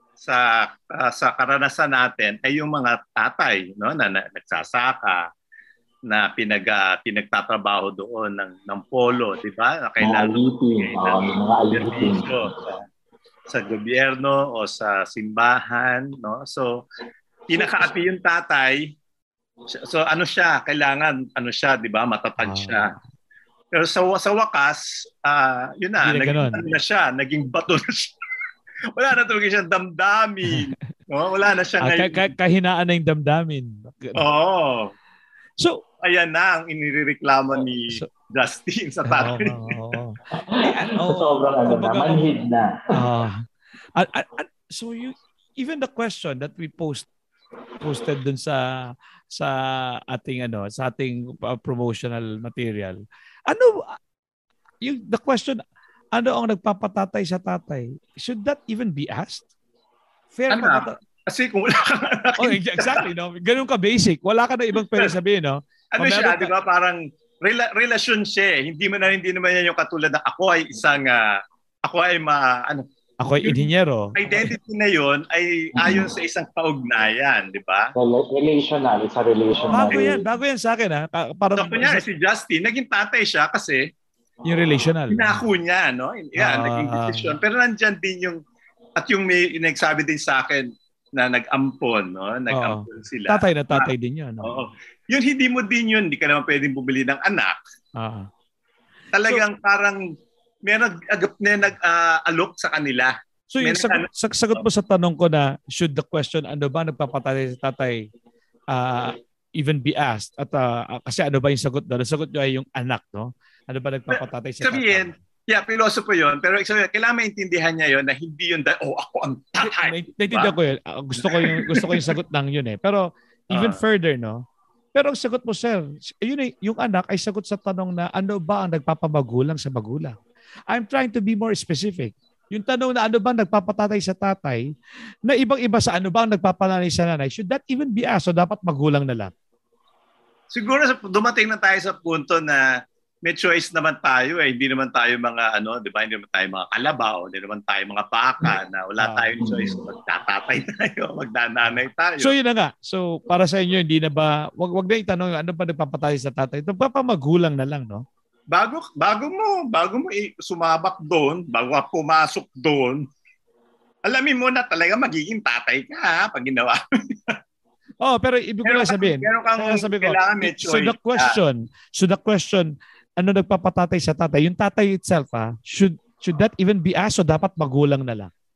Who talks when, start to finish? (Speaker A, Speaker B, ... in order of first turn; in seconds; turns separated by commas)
Speaker A: 0.2-5.2, Speaker A: 6.1-12.8, Speaker B: 10.0-12.6, Speaker A: 13.5-16.8, Speaker A: 17.5-18.8, Speaker A: 19.7-22.9, Speaker C: 22.4-22.9, Speaker A: 23.7-28.1, Speaker C: 26.0-26.7, Speaker A: 28.9-32.3, Speaker C: 30.5-30.7, Speaker C: 31.8-34.2, Speaker A: 34.1-34.9, Speaker A: 36.0-39.8, Speaker C: 39.1-42.3, Speaker B: 40.3-42.8, Speaker C: 42.9-47.1, Speaker C: 47.8-54.0, Speaker C: 54.8-55.6, Speaker C: 56.1-59.4, Speaker C: 60.3-61.0, Speaker A: 60.5-63.1, Speaker C: 62.4-66.5, Speaker A: 65.9-72.8, Speaker C: 73.2-74.5, Speaker A: 74.2-77.9, Speaker B: 75.8-76.1, Speaker B: 78.0-80.2, Speaker C: 79.7-82.0, Speaker A: 79.9-80.1, Speaker A: 81.5-83.8, Speaker C: 84.5-85.4, Speaker A: 85.1-88.4, Speaker C: 86.4-87.3, Speaker A: 89.0-93.9, Speaker C: 92.5-94.6, Speaker A: 94.4-97.6, Speaker C: 98.0-98.3, Speaker A: 99.1-100.0, Speaker A: 100.7-104.1, Speaker C: 103.5-108.1, Speaker C: 108.7-115.1, Speaker A: 114.1-120.5, Speaker C: 119.6-130.2, Speaker A: 121.2-122.2, Speaker A: 123.5-123.8, Speaker C: 130.7-134.7, Speaker C: 135.2-139.3, Speaker A: 140.5-142.6, Speaker A: 143.2-152.3, Speaker C: 149.0-149.3, Speaker B: 149.4-149.8, Speaker C: 151.7-158.0, Speaker A: 158.5-163.1, Speaker A: 164.0-167.4, Speaker C: 168.0-178.3, Speaker A: 168.6-171.4